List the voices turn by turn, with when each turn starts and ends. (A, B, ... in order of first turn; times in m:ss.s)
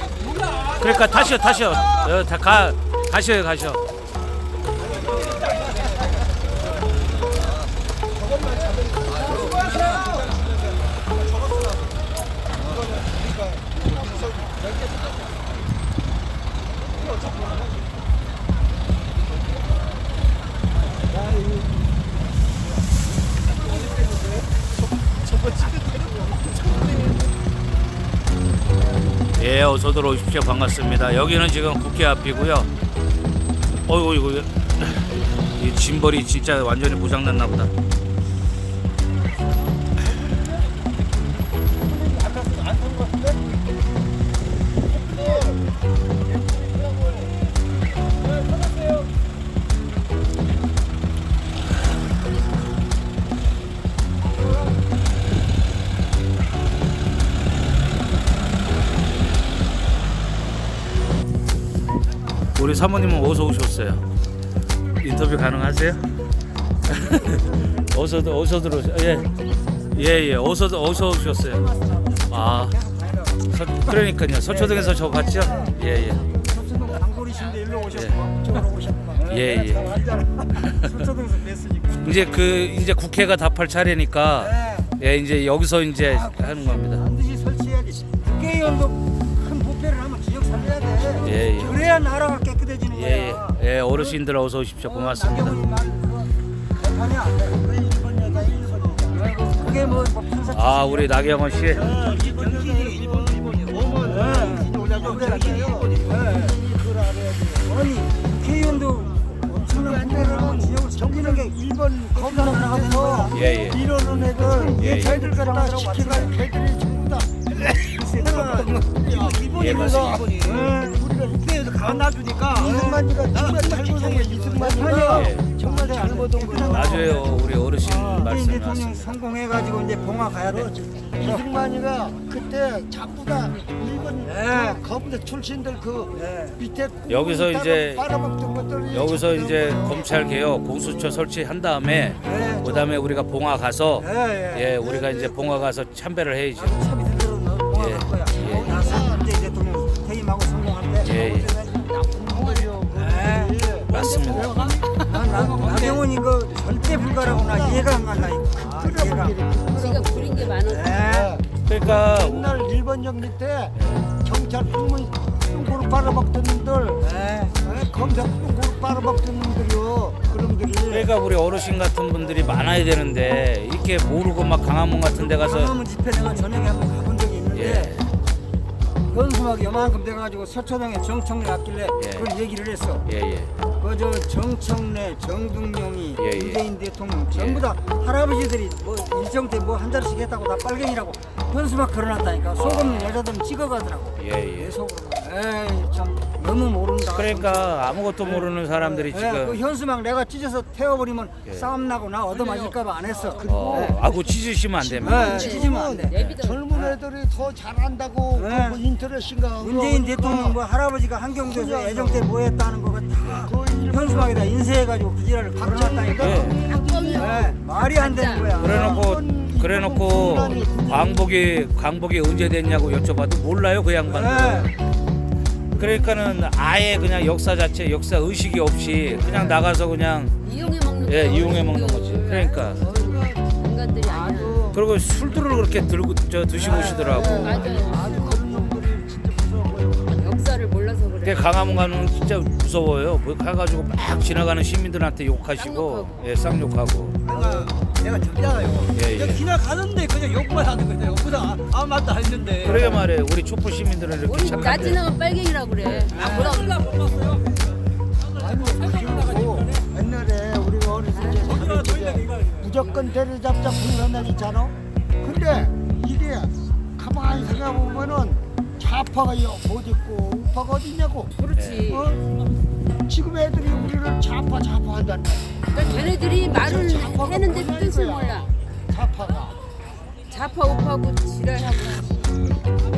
0:00.8-0:03.8 A
0:25.4-0:25.8 A
0:29.4-0:32.7 A
0:33.9-0:37.7 A
1:02.6-1:04.0 A
1:05.0-1:06.1 A
1:06.9-1:09.3 A
1:09.9-1:11.6 A
1:11.5-1:15.7 B
1:12.3-1:12.7 A
1:13.5-1:16.2 A
1:16.3-1:22.1 B
1:17.9-1:18.2 A
1:19.2-1:19.9 A
1:20.6-1:20.9 A
1:22.0-1:27.0 A
1:24.4-1:24.9 B
1:26.0-1:34.2 B
1:31.2-1:31.8 A
1:32.9-1:35.6 A
1:34.8-1:36.3 B
1:36.8-1:37.8 B
1:37.8-1:39.1 C
1:39.1-1:41.1 B
1:40.5-1:41.9 A
1:41.9-1:44.2 D
1:41.9-1:42.9 C
1:43.9-1:47.7 C
1:44.0-1:46.6 B
1:47.7-1:51.6 B
1:49.6-1:57.5 C
1:52.1-1:53.4 B
1:53.3-1:53.8 A
1:54.4-1:56.3 B
1:54.8-1:55.1 A
1:57.8-2:00.7 D
1:58.0-2:00.2 C
1:59.6-2:00.3 A
2:00.4-2:01.1 B
2:00.9-2:01.4 C
2:01.3-2:02.8 D
2:02.6-2:07.1 C
2:02.6-2:03.1 B
2:03.3-2:05.0 D
2:04.7-2:11.4 B
2:05.1-2:05.4 A
2:06.6-2:09.2 A
2:10.5-2:20.0 C
2:14.3-2:14.8 B
2:16.2-2:16.6 B
2:17.1-2:18.1 A
2:18.9-2:26.8 A
2:22.2-2:22.9 B
2:24.0-2:24.8 B
2:24.9-2:25.2 C
2:26.6-2:31.3 B
2:27.7-2:28.8 A
2:28.7-2:29.2 C
2:31.0-2:31.5 A
2:31.7-2:34.8 C
2:33.0-2:33.6 B
2:33.9-2:34.6 A
2:34.6-2:39.4 B
2:35.3-2:36.0 C
2:37.5-2:40.6 C
2:39.6-2:41.0 E
2:40.6-2:41.4 B
2:41.1-2:47.1 C
2:41.7-2:42.5 A
2:47.0-2:47.6 B
2:47.6-2:50.8 C
2:50.7-2:51.0 B
2:50.9-2:55.7 A
2:55.1-2:58.0 B
2:57.5-2:58.1 A
2:59.1-3:03.1 B
3:02.0-3:02.3 A
3:03.1-3:03.5 A
3:03.8-3:24.0 B
3:06.2-3:06.6 A
3:07.3-3:07.6 A
3:12.6-3:13.2 A
3:14.2-3:14.7 A
3:17.1-3:19.6 A
3:23.4-3:25.5 A
3:23.5-3:24.0 C
3:24.8-3:26.2 B
3:25.0-3:26.6 E
3:25.4-3:30.6 C
3:26.7-3:27.0 B
3:28.4-3:28.8 B
3:29.6-3:36.4 B
3:31.5-3:32.2 C
3:33.4-3:34.4 C
3:35.6-3:37.5 C
3:36.2-3:36.6 A
3:36.4-3:38.6 E
3:37.1-3:38.8 B
3:38.6-3:44.8 A
3:38.6-3:41.2 C
3:44.0-3:44.7 B
3:45.7-3:50.4 A
3:50.4-3:54.8 E
3:51.0-3:52.8 A
3:54.1-3:54.8 B
3:54.7-3:57.7 A
3:56.7-3:57.0 B
3:57.1-3:58.4 E
3:57.1-4:00.2 C
4:00.1-4:01.5 E
4:01.2-4:07.2 A
4:05.6-4:06.2 E
4:07.2-4:13.0 D
4:08.9-4:09.5 A
4:12.6-4:15.0 A
4:14.2-4:16.9 E
4:15.8-4:16.2 A
4:16.2-4:17.4 D
4:18.4-4:31.3 C
4:18.8-4:19.6 D
4:21.1-4:21.5 E
4:21.4-4:22.7 D
4:31.4-4:32.2 E
4:31.6-4:31.8 A
4:31.9-4:32.2 C
4:33.1-4:35.8 C
4:35.7-4:38.5 E
4:36.5-4:39.6 C
4:40.3-4:42.4 E